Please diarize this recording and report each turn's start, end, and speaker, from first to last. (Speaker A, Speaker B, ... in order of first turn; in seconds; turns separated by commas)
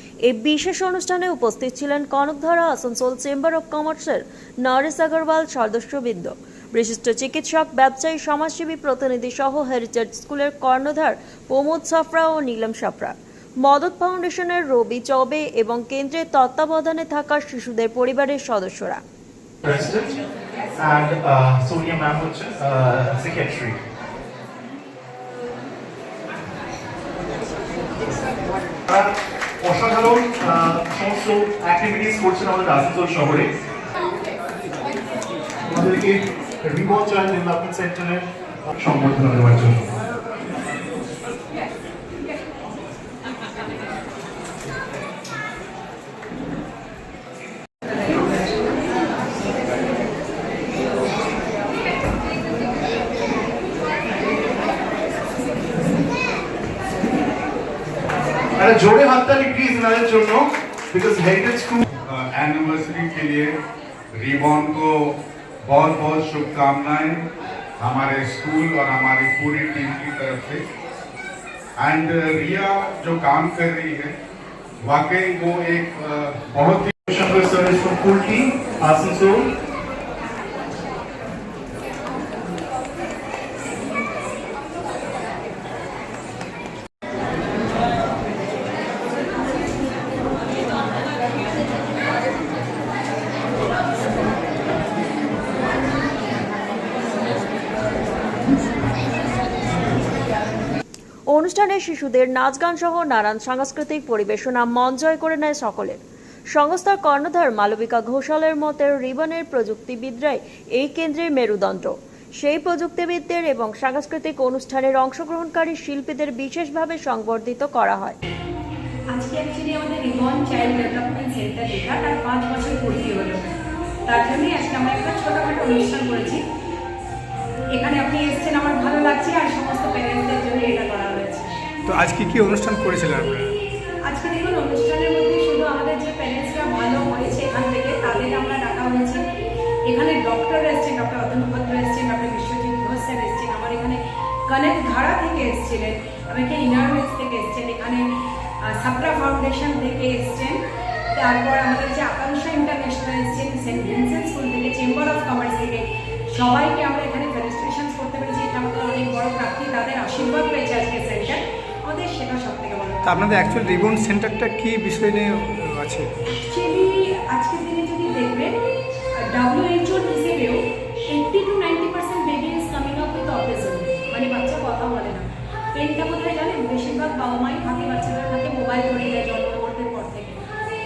Speaker A: 0.3-19.0, Speaker B: 19.6-20.2, Speaker B: 20.8-23.8, Speaker B: 28.9-33.6, Speaker B: 35.7-40.1, Speaker B: 58.6-61.8, Speaker C: 62.0-63.6, Speaker C: 64.1-70.7, Speaker C: 71.8-74.2, Speaker C: 74.8-77.0, Speaker B: 77.1-79.5, Speaker A: 101.3-106.0, Speaker A: 106.5-118.2, Speaker D: 119.1-126.4, Speaker D: 127.7-131.5, Speaker E: 131.9-133.5, Speaker D: 134.1-139.2, Speaker D: 139.9-148.1, Speaker D: 148.7-150.6, Speaker D: 151.2-163.0, Speaker E: 163.1-166.1, Speaker D: 166.3-168.5, Speaker D: 169.2-180.4